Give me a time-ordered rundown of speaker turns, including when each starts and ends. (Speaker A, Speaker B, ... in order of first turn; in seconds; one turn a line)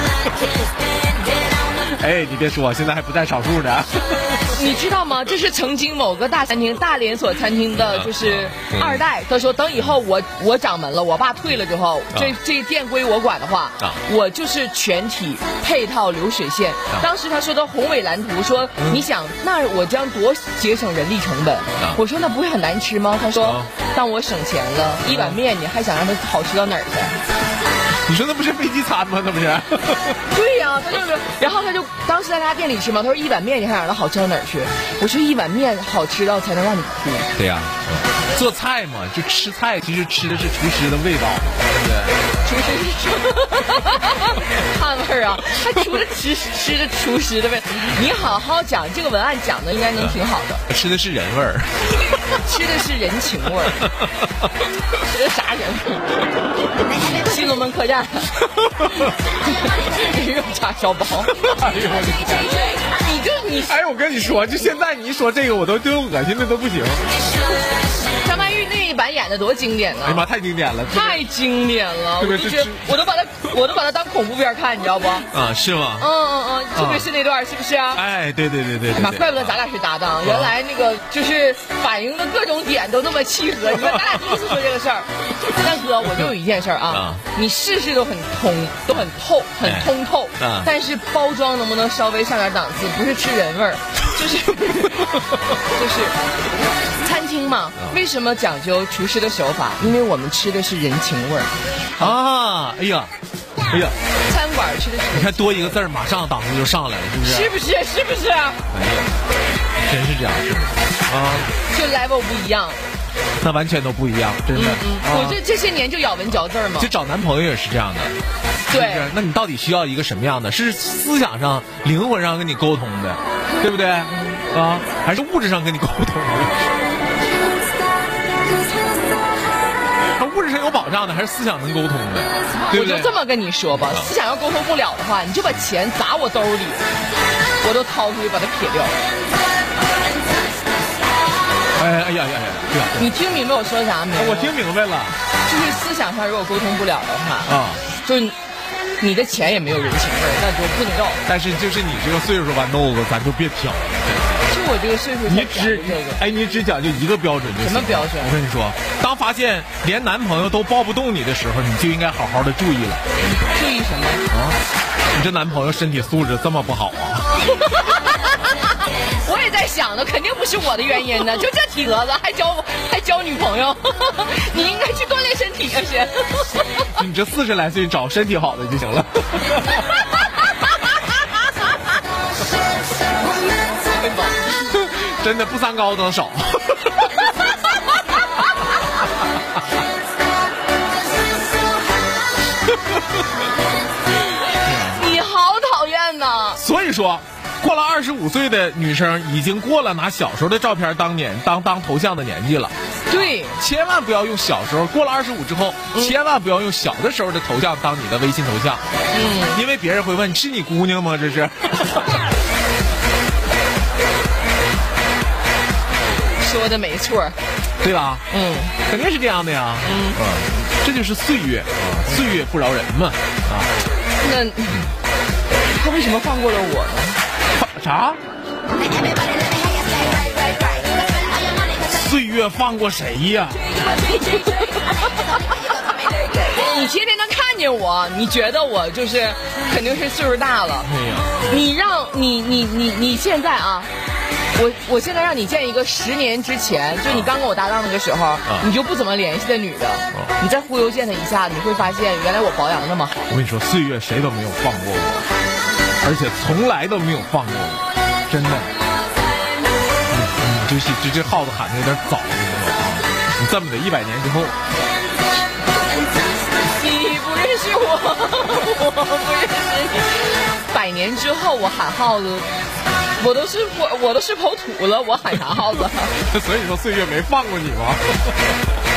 Speaker A: 1.8-4.5
Speaker B: 4.5-27.2
Speaker A: 7.8-9.0
Speaker A: 18.8-19.0
Speaker A: 23.4-23.7
Speaker A: 25.0-25.4
Speaker A: 28.1-30.2
Speaker B: 30.3-37.3
Speaker A: 37.3-42.2
Speaker B: 42.4-50.6
Speaker A: 50.0-52.2
Speaker B: 52.3-53.9
Speaker B: 55.0-56.2
Speaker B: 57.0-58.3
Speaker A: 58.6-59.1
Speaker B: 59.5-61.3
Speaker A: 61.3-62.5
Speaker B: 62.5-63.8
Speaker A: 63.5-67.0
Speaker B: 68.2-70.3
Speaker A: 70.0-71.2
Speaker B: 70.9-75.3
Speaker A: 72.2-72.9
Speaker A: 75.3-76.1
Speaker B: 76.0-78.0
Speaker A: 76.7-77.1
Speaker A: 77.9-79.6
Speaker B: 78.9-95.1
Speaker A: 80.2-80.5
Speaker A: 83.7-84.4
Speaker A: 86.9-87.2
Speaker A: 89.6-90.7
Speaker B: 95.7-96.2
Speaker B: 97.0-102.2
Speaker A: 102.0-103.1
Speaker A: 103.7-103.9
Speaker B: 104.2-105.8
Speaker A: 105.1-107.5
Speaker B: 107.2-108.6
Speaker A: 108.7-109.2
Speaker A: 109.8-111.5
Speaker B: 111.7-112.8
Speaker A: 113.4-115.4
Speaker B: 114.5-116.9
Speaker A: 116.7-118.2
Speaker B: 118.7-119.1
Speaker A: 118.7-126.7
Speaker A: 130.1-133.1
Speaker B: 132.7-136.9
Speaker A: 133.8-134.1
Speaker B: 137.6-138.9
Speaker A: 141.8-143.3
Speaker B: 143.0-144.6
Speaker A: 144.2-145.2
Speaker B: 145.4-148.3
Speaker A: 147.4-147.8
Speaker B: 149.0-151.2
Speaker A: 151.2-154.5
Speaker B: 154.5-156.2
Speaker A: 155.2-163.5
Speaker B: 157.6-158.3
Speaker B: 163.5-164.2
Speaker A: 164.3-164.6
Speaker A: 165.1-167.3
Speaker B: 167.6-168.6
Speaker B: 169.1-176.8
Speaker A: 176.9-179.8
Speaker B: 179.7-180.6
Speaker B: 183.8-184.3
Speaker A: 184.5-187.2
Speaker A: 194.6-195.1
Speaker B: 194.8-196.6
Speaker A: 196.6-212.1
Speaker B: 203.1-203.6
Speaker B: 209.1-209.6
Speaker B: 216.4-217.4
Speaker A: 217.8-218.2
Speaker B: 218.3-218.7
Speaker A: 218.8-223.7
Speaker B: 219.8-220.2
Speaker B: 222.1-222.4
Speaker B: 224.2-224.9
Speaker B: 225.7-227.2
Speaker A: 227.5-228.2
Speaker A: 231.8-233.6
Speaker B: 234.3-234.9
Speaker B: 236.5-240.9
Speaker A: 240.8-241.5
Speaker B: 241.4-243.9
Speaker B: 244.5-253.3
Speaker A: 247.0-247.3
Speaker A: 253.3-255.3
Speaker A: 256.0-258.7
Speaker A: 260.1-264.6
Speaker B: 266.8-272.5
Speaker B: 273.2-276.2
Speaker A: 276.2-278.6